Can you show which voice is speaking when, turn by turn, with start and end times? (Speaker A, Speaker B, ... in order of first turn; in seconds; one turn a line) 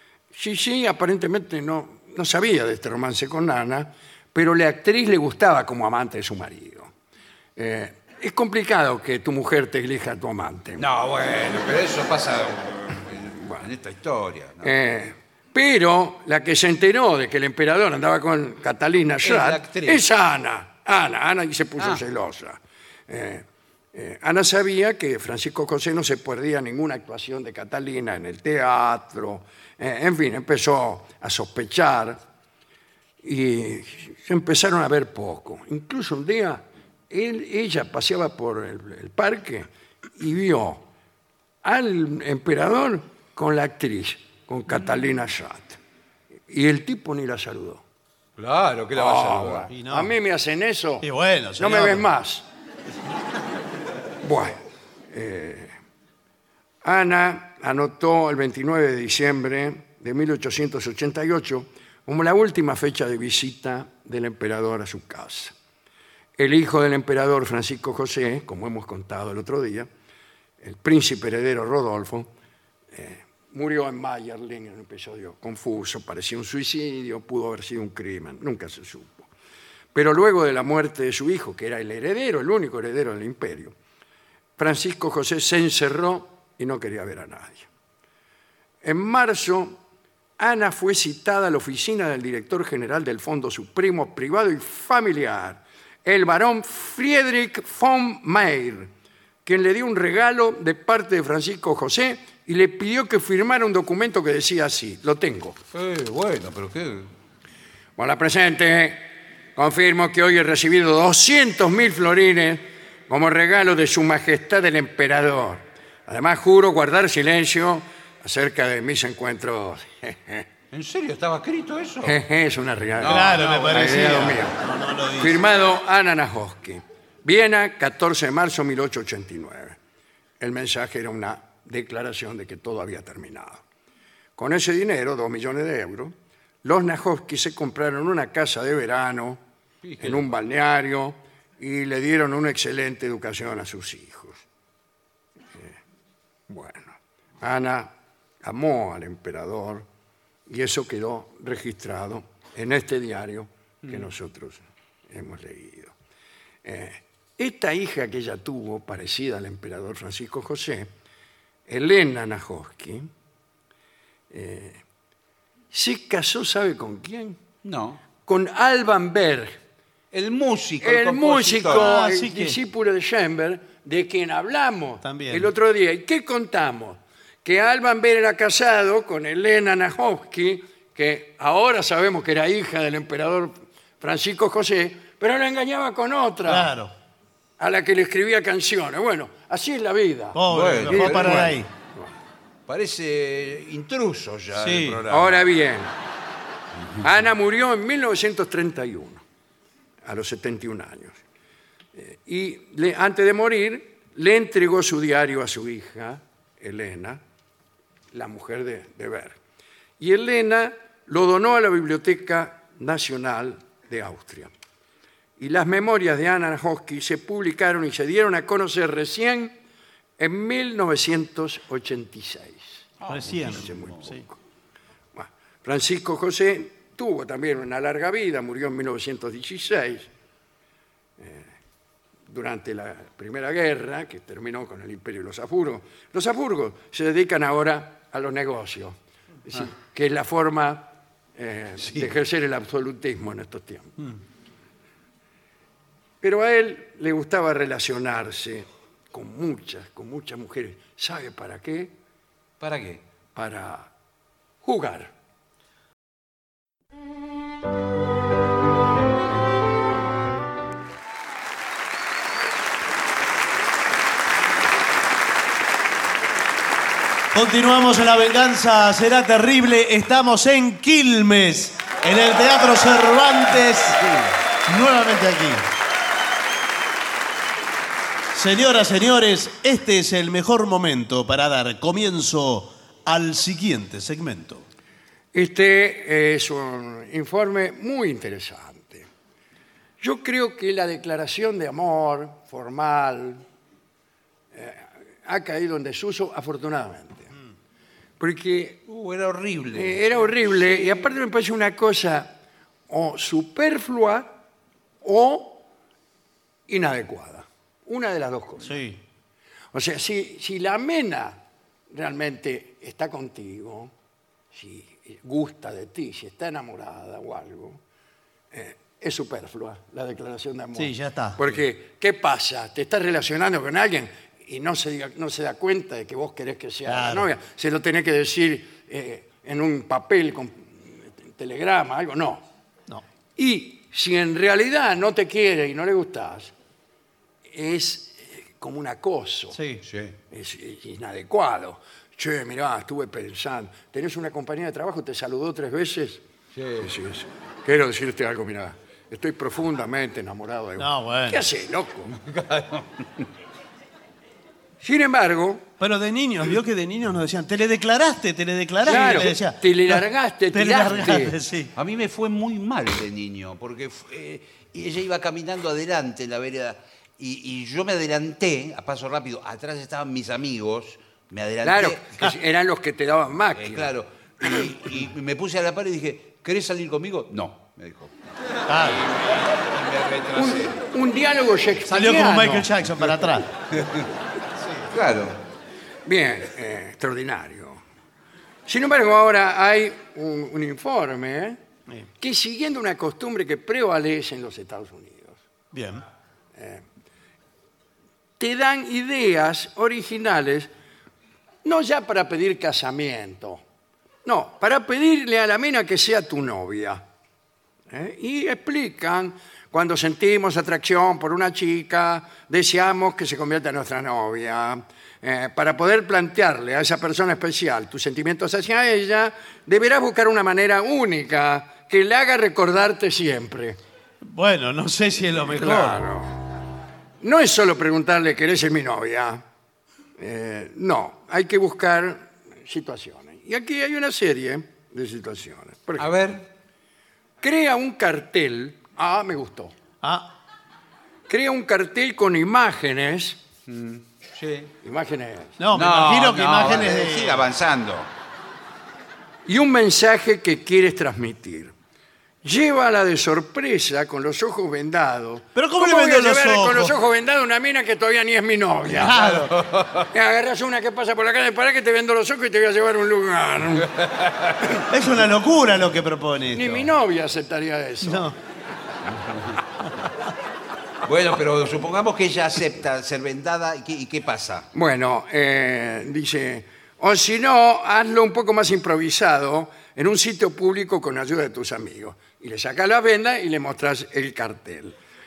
Speaker A: 0.3-6.9
Speaker A: 7.5-10.8
Speaker B: 10.8-14.7
Speaker A: 14.6-32.2
Speaker B: 19.2-20.0
Speaker A: 33.2-40.8
Speaker A: 41.6-45.8
Speaker A: 46.5-47.8
Speaker B: 48.4-49.7
Speaker A: 48.9-52.5
Speaker C: 49.7-50.1
Speaker C: 51.0-52.1
Speaker A: 54.2-54.6
Speaker A: 55.1-55.7
Speaker A: 56.8-65.5
Speaker A: 66.4-69.9
Speaker A: 70.6-72.3
Speaker A: 72.9-79.3
Speaker A: 79.9-83.7
Speaker A: 84.6-87.7
Speaker A: 88.8-89.8
Speaker A: 90.4-98.9
Speaker A: 99.4-105.6
Speaker B: 105.7-107.1
Speaker A: 108.0-120.5
Speaker B: 120.7-122.2
Speaker A: 122.0-124.6
Speaker B: 123.0-124.5
Speaker C: 123.0-125.4
Speaker A: 125.2-129.8
Speaker A: 130.4-133.6
Speaker A: 134.3-139.4
Speaker B: 139.8-140.3
Speaker A: 140.0-144.4
Speaker A: 146.5-147.9
Speaker A: 148.4-149.9
Speaker A: 150.5-155.9
Speaker A: 156.6-160.9
Speaker A: 161.7-163.1
Speaker A: 164.3-164.8
Speaker A: 165.7-167.4
Speaker B: 167.6-168.0
Speaker A: 168.2-169.6
Speaker B: 170.1-171.9
Speaker A: 170.8-186.7
Speaker C: 171.6-172.6
Speaker C: 175.0-175.5
Speaker C: 186.4-186.9
Speaker A: 187.6-192.1
Speaker C: 190.3-191.7
Speaker B: 190.5-191.5
Speaker B: 192.7-195.4
Speaker C: 194.5-195.0
Speaker A: 195.1-195.9
Speaker A: 197.0-199.2
Speaker A: 200.0-201.2
Speaker A: 201.9-207.2
Speaker A: 208.1-209.4
Speaker A: 210.0-214.5
Speaker A: 215.4-219.5
Speaker A: 220.2-222.8
Speaker B: 223.0-224.2
Speaker C: 223.1-224.2
Speaker A: 223.5-224.4
Speaker A: 225.2-230.1
Speaker A: 231.2-231.5
Speaker A: 232.3-244.1
Speaker A: 246.2-251.9
Speaker B: 252.6-253.0
Speaker A: 253.3-253.9
Speaker A: 254.6-255.1
Speaker C: 267.3-274.1
Speaker C: 274.6-275.6
Speaker C: 278.3-284.6
Speaker A: 285.3-289.1
Speaker A: 290.0-293.4
Speaker A: 294.5-297.3
Speaker A: 298.2-298.8
Speaker B: 298.9-300.0
Speaker A: 299.7-302.4
Speaker A: 302.9-304.4
Speaker A: 305.0-305.6
Speaker A: 306.7-308.8
Speaker C: 308.6-309.0
Speaker A: 309.7-311.4
Speaker A: 311.9-313.9
Speaker A: 314.5-317.8
Speaker A: 318.5-332.4
Speaker C: 320.8-321.4
Speaker C: 326.9-327.3
Speaker A: 333.4-336.5
Speaker A: 337.5-339.6
Speaker C: 339.5-339.8
Speaker B: 339.8-340.1
Speaker A: 340.3-346.2
Speaker B: 346.5-346.9
Speaker A: 346.8-352.1
Speaker C: 350.8-351.4
Speaker B: 352.1-353.3
Speaker A: 354.8-355.6
Speaker C: 355.8-360.0
Speaker A: 358.8-361.4
Speaker C: 360.5-361.7
Speaker B: 361.8-372.1
Speaker A: 371.6-373.9
Speaker B: 373.6-378.1
Speaker C: 378.7-379.1
Speaker B: 378.8-380.8
Speaker A: 380.4-382.7
Speaker C: 381.9-383.5
Speaker B: 383.7-384.1
Speaker C: 384.6-384.9
Speaker B: 384.9-385.4
Speaker A: 386.1-387.8
Speaker A: 388.7-391.6
Speaker A: 392.2-395.4
Speaker C: 395.7-396.0
Speaker A: 396.6-396.8
Speaker A: 398.4-400.7
Speaker A: 401.6-403.6
Speaker A: 404.2-407.0
Speaker A: 407.9-423.8
Speaker C: 424.2-426.0
Speaker A: 425.5-426.4
Speaker A: 427.2-429.4
Speaker A: 430.2-436.1
Speaker B: 436.0-436.4
Speaker A: 437.4-439.7
Speaker C: 440.0-440.3
Speaker A: 441.3-443.4
Speaker B: 443.7-444.7
Speaker A: 444.8-445.6
Speaker C: 445.6-447.5
Speaker B: 445.7-448.1
Speaker A: 449.4-451.7
Speaker A: 452.4-459.2
Speaker C: 455.5-456.9
Speaker C: 458.9-459.6
Speaker B: 459.2-460.1
Speaker A: 460.1-463.9
Speaker B: 463.8-464.7
Speaker C: 464.9-466.9
Speaker A: 466.5-468.3
Speaker C: 468.0-468.4
Speaker B: 469.3-469.6
Speaker B: 471.0-474.7
Speaker A: 474.7-485.0